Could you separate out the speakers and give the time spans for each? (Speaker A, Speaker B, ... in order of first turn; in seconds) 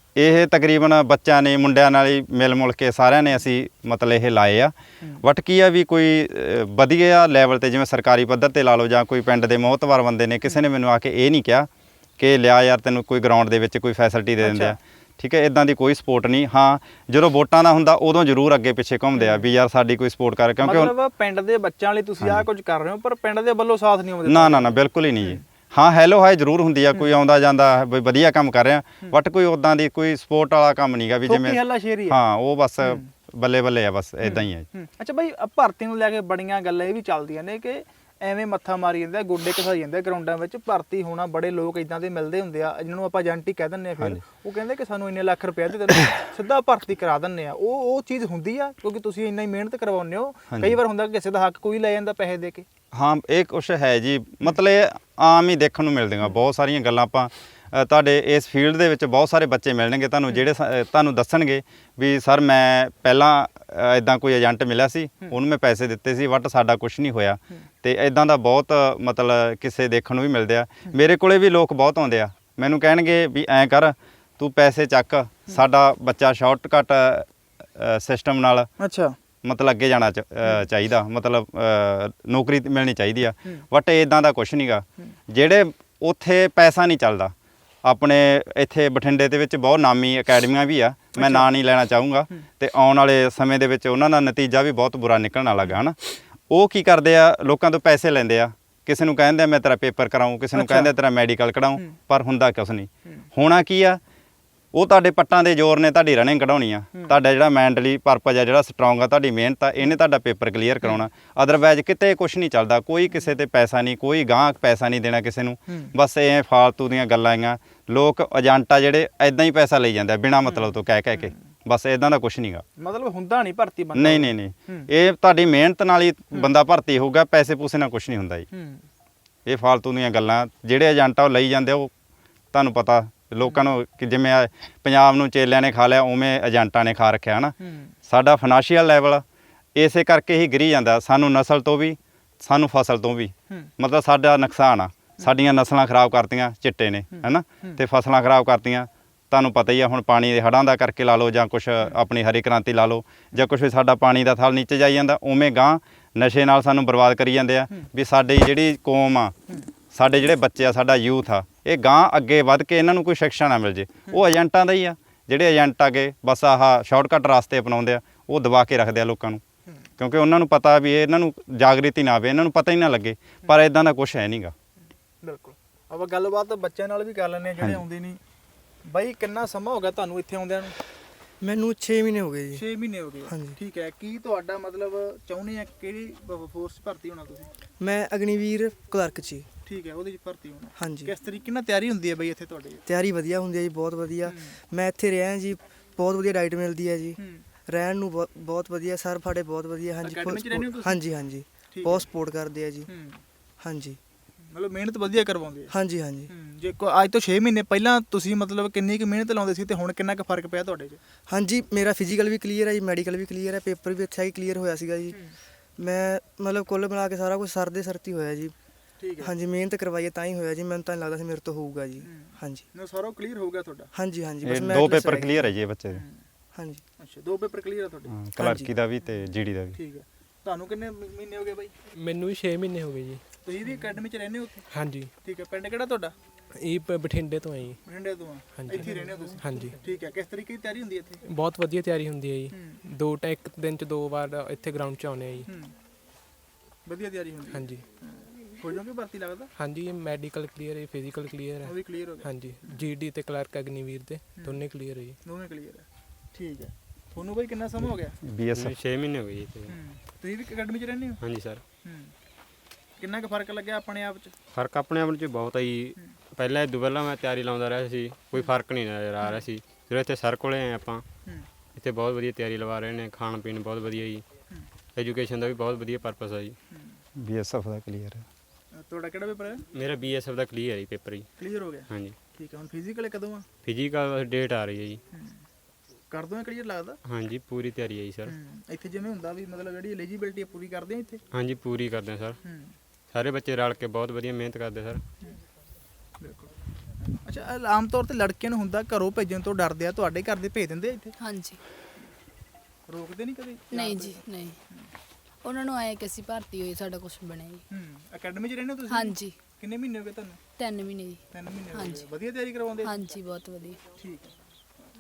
Speaker A: 0.2-20.9, 24.3-34.7, 50.5-50.8, 52.9-78.7, 79.4-87.3, 87.8-96.0, 96.5-104.0, 104.7-122.7, 124.0-128.5, 129.5-131.9, 132.5-139.2, 139.8-159.3, 159.9-169.4, 170.0-174.5, 224.4-226.0, 228.1-229.8, 258.2-258.8, 277.2-278.2
Speaker B: 14.4-14.8, 20.6-24.7, 31.3-32.2, 34.3-52.7, 78.8-79.2, 91.2-91.5, 100.6-100.9, 122.8-124.9, 128.5-128.8, 137.6-137.9, 175.2-178.2, 178.8-180.8, 182.6-187.5, 189.7-192.8, 194.3-194.5, 197.2-197.4, 200.0-201.0, 201.7-202.1, 202.9-203.2, 204.5-205.7, 206.3-211.0, 219.0-219.3, 222.1-223.9, 227.0-228.1, 229.8-231.7, 233.4-234.7, 235.2-236.2, 237.8-241.2, 242.5-242.8, 245.5-245.7, 246.8-249.5, 251.6-252.8, 254.4-254.6, 255.2-258.2, 259.7-261.2, 261.8-262.1, 263.0-264.3, 278.7-279.6, 281.4-283.5, 286.1-287.0, 288.3-291.2, 292.4-292.7, 296.2-296.5, 297.2-301.1, 302.9-304.2, 307.7-310.4, 311.3-313.1, 314.0-314.3
Speaker C: 181.4-182.7, 183.2-183.6, 187.8-189.5, 190.8-191.1, 192.9-202.9, 203.6-204.0, 205.7-206.3, 211.3-218.5, 219.2-222.7, 223.9-225.5, 226.5-226.8, 228.4-228.7
Speaker D: 231.9-233.2, 234.7-235.1, 236.6-237.8, 238.5-239.8, 241.2-245.5, 247.5-247.8, 249.6-255.2
Speaker E: 258.5-259.8, 261.2-261.6, 264.5-271.1, 271.8-274.2, 275.0-276.6, 279.7-281.3, 281.9-282.2, 283.6-285.0, 287.1-288.4, 291.3-292.4, 293.1-295.0
Speaker F: 301.2-301.6, 303.7-304.6, 305.4-307.6, 308.9-309.4, 310.6-312.1, 312.8-313.8